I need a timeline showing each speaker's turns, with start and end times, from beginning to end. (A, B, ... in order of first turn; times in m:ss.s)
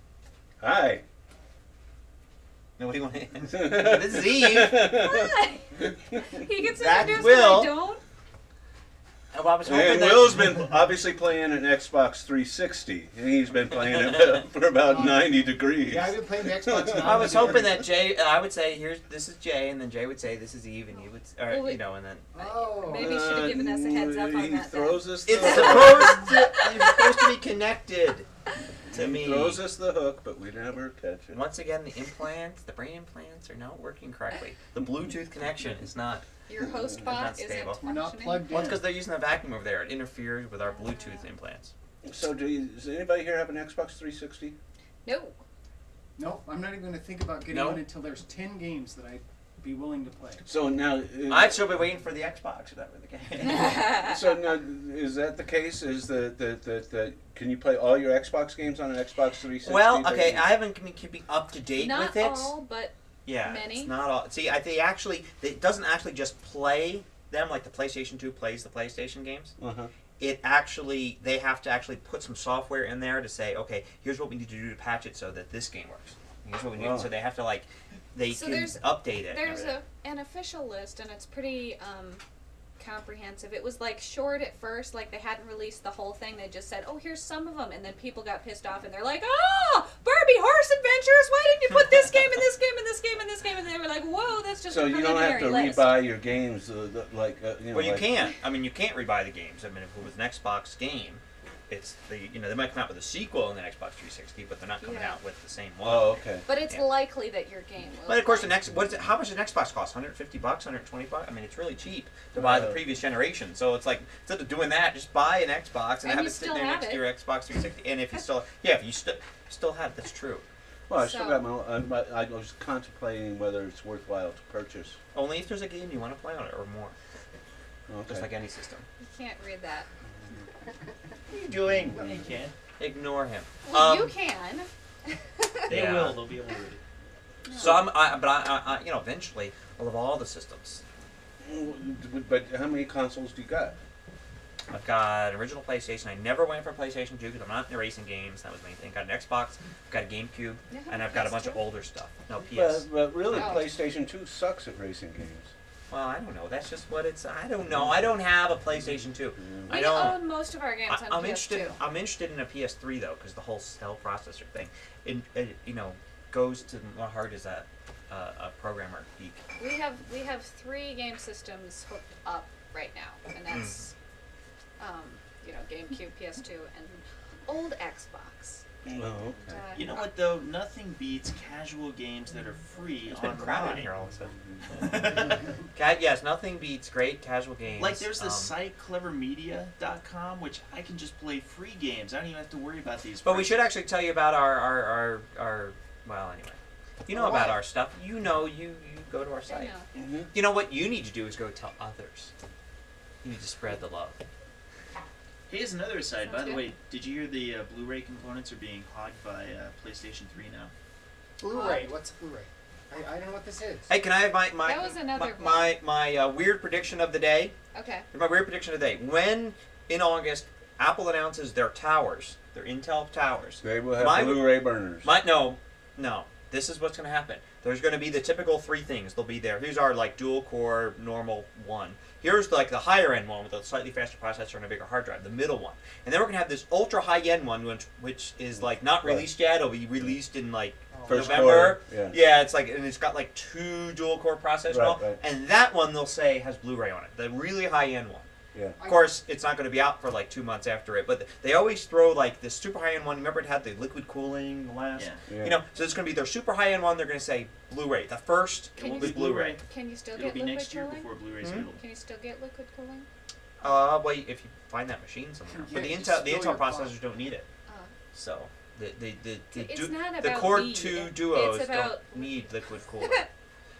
0:00.6-0:01.0 A
0:02.8-0:05.0 B
0:03.5-0:06.2 A
0:04.9-0:08.0 C
0:06.6-0:07.8 B
0:09.3-0:10.7 B
0:09.6-0:17.7 A
0:14.8-0:17.7 D
0:17.0-0:22.3 B
0:21.5-0:21.8 C
0:22.3-0:23.2 D
0:22.4-0:27.3 C
0:22.9-0:26.2 A
0:25.2-0:28.3 B
0:28.8-0:31.4 A
0:28.9-0:29.6 B
0:31.3-0:36.2 B
0:36.5-0:38.5 C
0:36.6-0:37.0 A
0:37.0-0:37.8 B
0:37.8-0:38.8 D
0:38.5-0:41.7 B
0:40.6-0:41.3 C
0:42.0-0:44.6 A
0:45.0-0:45.4 C
0:46.2-0:50.4 D
0:47.5-0:47.8 B
0:50.4-0:51.7 A
0:51.3-0:54.0 B
0:53.6-0:54.1 C
0:54.0-1:00.5 A
0:59.6-1:02.5 B
1:01.8-1:03.9 C
1:03.2-1:09.5 B
1:09.6-1:09.9 A
1:10.2-1:19.7 B
1:16.7-1:17.1 A
1:18.3-1:22.2 C
1:22.8-1:36.0 C
1:34.7-1:38.2 A
1:37.7-1:47.0 B
1:44.8-1:45.2 C
1:45.8-1:46.4 A
1:46.4-1:48.5 C
1:48.1-2:00.4 B
1:48.7-1:49.0 A
1:52.3-1:52.8 A
1:56.0-1:57.1 C
2:00.9-2:05.0 A
2:00.9-2:01.4 C
2:05.1-2:06.9 B
2:07.9-2:08.3 A
2:08.0-2:08.8 B
2:09.0-2:09.9 C
2:11.3-2:12.5 E
2:12.8-2:14.1 B
2:13.6-2:15.7 C
2:15.7-2:16.2 B
2:15.7-2:16.8 E
2:17.4-2:17.8 C
2:17.5-2:17.9 A
2:17.6-2:20.8 B
2:21.4-2:23.8 A
2:24.7-2:33.6 B
2:30.7-2:31.6 C
2:32.5-2:35.5 A
2:33.3-2:33.7 C
2:35.9-2:40.3 B
2:37.7-2:38.2 A
2:39.2-2:39.8 A
2:39.7-2:41.8 C
2:40.9-2:49.4 B
2:49.6-2:53.9 C
2:53.5-2:53.8 B
2:54.8-2:58.6 C
2:58.8-2:59.6 A
2:59.4-2:59.9 C
2:59.7-3:03.9 E
3:03.1-3:08.5 B
3:04.7-3:05.4 E
3:07.8-3:13.7 E
3:13.2-3:19.7 B
3:19.5-3:19.9 C
3:19.9-3:20.3 A
3:20.3-3:22.3 B
3:23.2-3:24.2 B
3:25.5-3:30.7 E
3:26.2-3:26.6 C
3:31.4-3:33.9 D
3:31.5-3:31.9 C
3:33.9-3:37.6 B
3:34.6-3:35.8 C
3:37.7-3:38.1 C
3:38.1-4:08.3 B
3:43.6-3:45.1 A
3:58.6-3:59.3 A
4:00.9-4:01.4 D
4:01.0-4:02.2 A
4:04.7-4:05.2 A
4:08.8-4:09.1 D
4:08.8-4:19.6 B
4:14.9-4:15.2 E
4:15.3-4:15.6 A
4:18.8-4:21.8 E
4:18.8-4:21.1 C
4:21.7-4:23.1 C
4:23.6-4:27.4 B
4:25.5-4:26.9 D
4:27.7-4:27.9 C
4:28.1-4:33.2 B
4:29.5-4:33.3 C